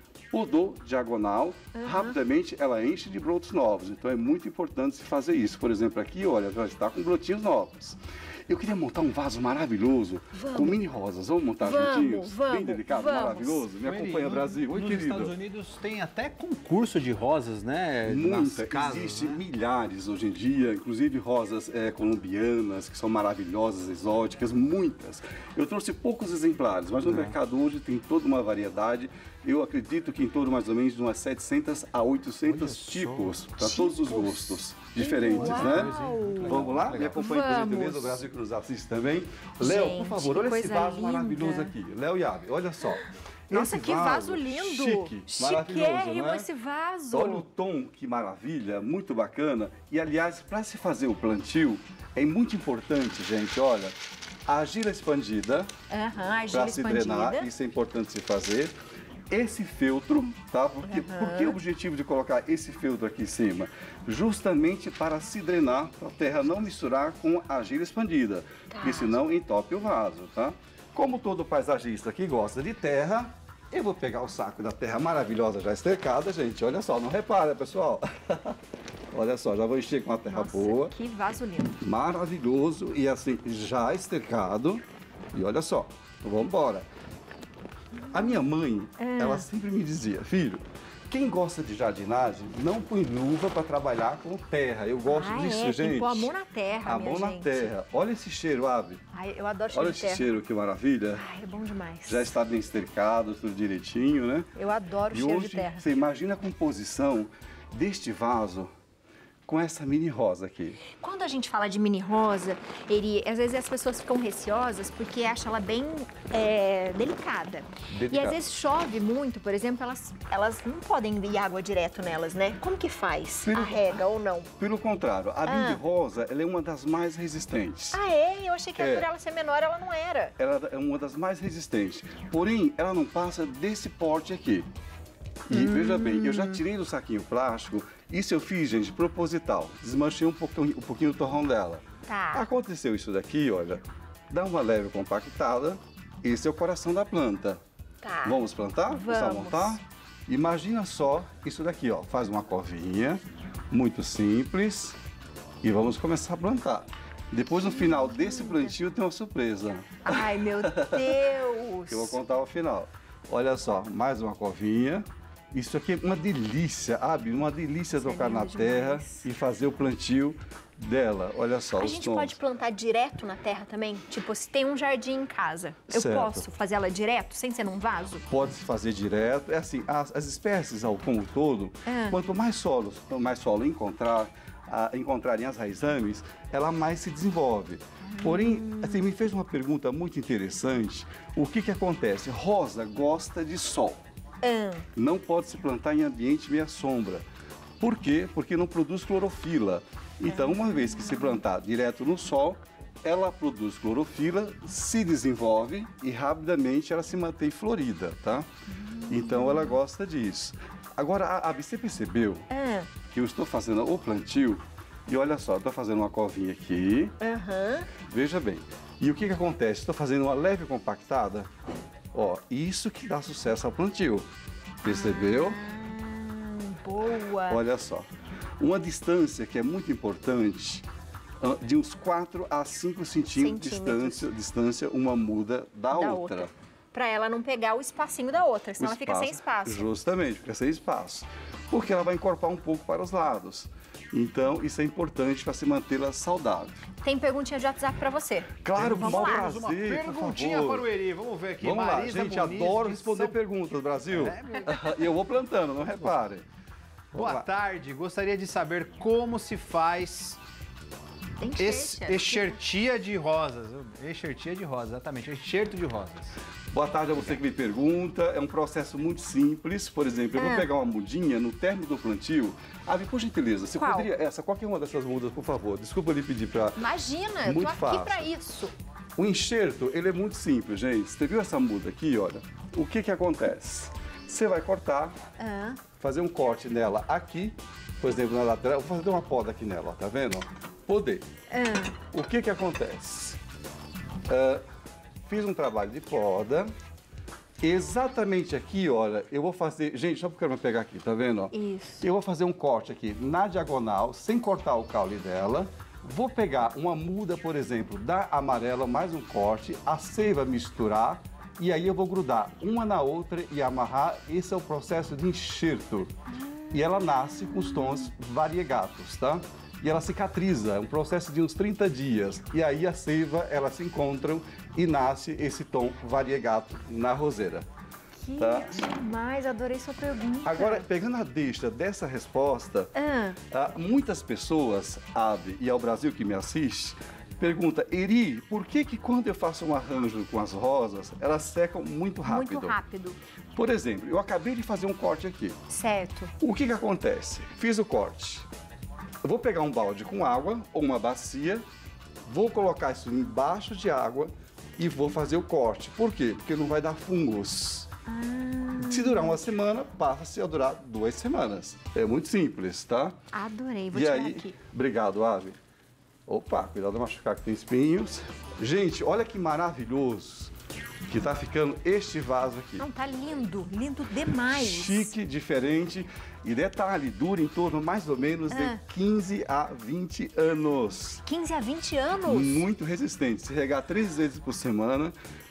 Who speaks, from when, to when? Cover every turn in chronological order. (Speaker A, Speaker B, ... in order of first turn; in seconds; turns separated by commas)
Speaker A: 0.3-15.3, Speaker B: 1.7-2.2, Speaker B: 10.3-10.8, Speaker B: 11.6-13.7, Speaker C: 13.8-19.4, Speaker A: 18.0-46.5, Speaker C: 27.1-27.4, Speaker C: 32.4-33.4, Speaker B: 33.6-38.2, Speaker C: 35.3-37.3, Speaker B: 39.6-41.7, Speaker B: 42.9-47.5, Speaker A: 47.1-54.0, Speaker A: 54.5-55.7, Speaker B: 55.9-57.5, Speaker A: 56.5-58.7, Speaker A: 59.3-78.6, Speaker B: 60.8-61.6, Speaker B: 68.7-69.2, Speaker A: 79.1-81.0, Speaker B: 80.3-81.8, Speaker A: 81.8-86.9, Speaker B: 88.0-88.4, Speaker A: 88.1-96.3, Speaker B: 89.0-89.5, Speaker B: 95.1-97.7, Speaker A: 96.8-99.0, Speaker B: 99.1-100.3, Speaker A: 99.7-101.2, Speaker B: 101.2-102.3, Speaker A: 102.1-104.5, Speaker B: 104.5-105.9, Speaker A: 105.1-108.7, Speaker A: 109.5-110.8, Speaker B: 110.9-124.5, Speaker A: 117.9-118.4, Speaker A: 123.4-124.1, Speaker A: 124.6-128.0, Speaker B: 125.5-125.8, Speaker B: 127.9-130.3, Speaker A: 128.8-129.1, Speaker A: 130.4-134.7, Speaker A: 135.5-147.6, Speaker B: 135.5-136.6, Speaker B: 142.1-142.5, Speaker B: 148.0-149.8, Speaker A: 148.2-153.2, Speaker A: 153.7-155.0, Speaker A: 155.6-161.3, Speaker B: 157.5-158.8, Speaker B: 160.0-162.2, Speaker A: 161.9-172.4, Speaker B: 167.9-169.3, Speaker B: 171.8-178.2, Speaker A: 175.9-176.5, Speaker A: 178.3-194.0, Speaker B: 181.9-182.2, Speaker B: 188.0-189.1, Speaker B: 194.4-194.9, Speaker A: 194.9-197.2, Speaker A: 197.8-208.5, Speaker B: 200.3-201.4, Speaker B: 208.7-209.8, Speaker A: 209.1-212.5, Speaker B: 212.5-212.9, Speaker A: 213.1-217.2, Speaker B: 217.2-217.9, Speaker A: 218.0-221.5, Speaker A: 222.1-224.3, Speaker A: 224.8-225.6, Speaker B: 224.8-227.6, Speaker A: 227.5-230.9, Speaker A: 231.4-236.5, Speaker B: 233.3-234.3, Speaker B: 235.9-239.9, Speaker A: 238.8-246.9, Speaker B: 247.0-249.5, Speaker A: 248.6-250.9, Speaker C: 248.8-253.4, Speaker A: 251.6-256.4, Speaker C: 254.1-255.1, Speaker A: 257.1-257.5, Speaker C: 257.1-260.4, Speaker B: 261.4-262.6, Speaker C: 261.6-266.4, Speaker A: 266.7-276.8, Speaker B: 270.4-270.7, Speaker B: 273.8-274.1, Speaker B: 276.8-278.7, Speaker A: 277.4-278.3, Speaker A: 279.2-285.2, Speaker B: 285.4-285.8, Speaker A: 286.0-291.3, Speaker B: 291.5-291.9, Speaker A: 292.1-293.4, Speaker A: 294.3-294.6, Speaker A: 295.3-296.7, Speaker A: 297.6-316.1, Speaker B: 301.5-302.1, Speaker B: 316.3-318.1, Speaker A: 316.7-327.7, Speaker B: 328.2-330.9, Speaker A: 328.4-328.9, Speaker A: 330.4-332.9, Speaker B: 332.9-333.4, Speaker A: 333.5-342.8, Speaker B: 342.2-343.2, Speaker A: 343.6-345.6, Speaker B: 345.7-346.3, Speaker A: 346.4-348.5, Speaker A: 349.2-351.6, Speaker A: 352.3-357.9, Speaker B: 358.1-359.4, Speaker A: 358.8-363.2, Speaker B: 363.3-364.6, Speaker A: 363.9-365.6, Speaker A: 366.3-370.5, Speaker A: 371.1-372.9, Speaker B: 372.8-375.1, Speaker A: 374.5-381.2, Speaker B: 378.5-378.8, Speaker B: 381.2-382.7, Speaker A: 382.3-385.1